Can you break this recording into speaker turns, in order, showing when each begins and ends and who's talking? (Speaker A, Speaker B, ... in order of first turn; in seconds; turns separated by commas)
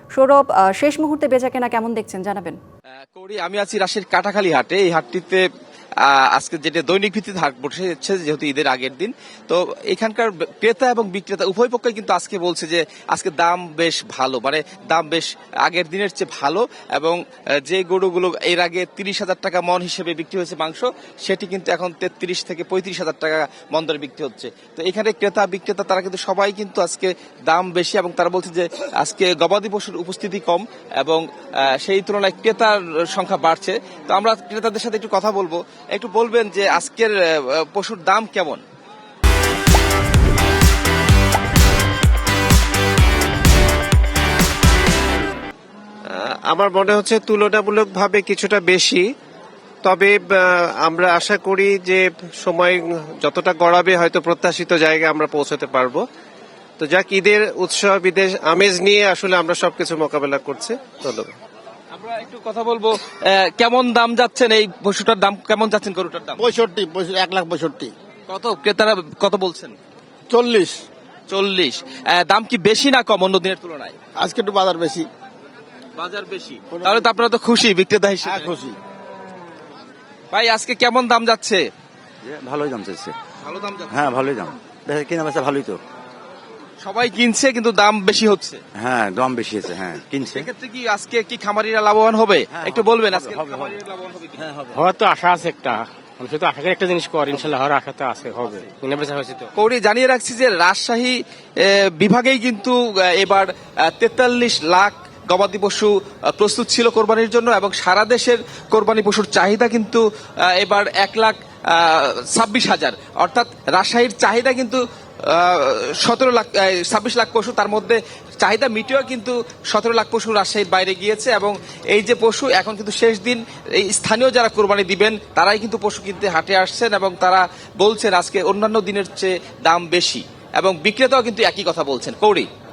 Speaker A: 0.1-2.6, Speaker B: 3.1-5.4, Speaker B: 6.0-38.6, Speaker C: 46.1-49.0, Speaker C: 49.8-56.0, Speaker C: 56.8-61.3, Speaker B: 61.9-66.4, Speaker D: 66.4-67.9, Speaker B: 68.3-69.7, Speaker D: 70.3-70.8, Speaker B: 71.3-74.0, Speaker D: 74.2-75.1, Speaker B: 76.0-78.5, Speaker D: 76.7-77.1, Speaker D: 78.2-78.8, Speaker B: 80.3-81.6, Speaker E: 82.2-83.1, Speaker B: 83.4-84.1, Speaker E: 83.9-85.8, Speaker B: 86.8-88.6, Speaker E: 88.8-90.5, Speaker B: 90.3-94.6, Speaker E: 92.5-93.8, Speaker E: 94.4-94.8, Speaker F: 94.7-99.5, Speaker B: 99.6-132.5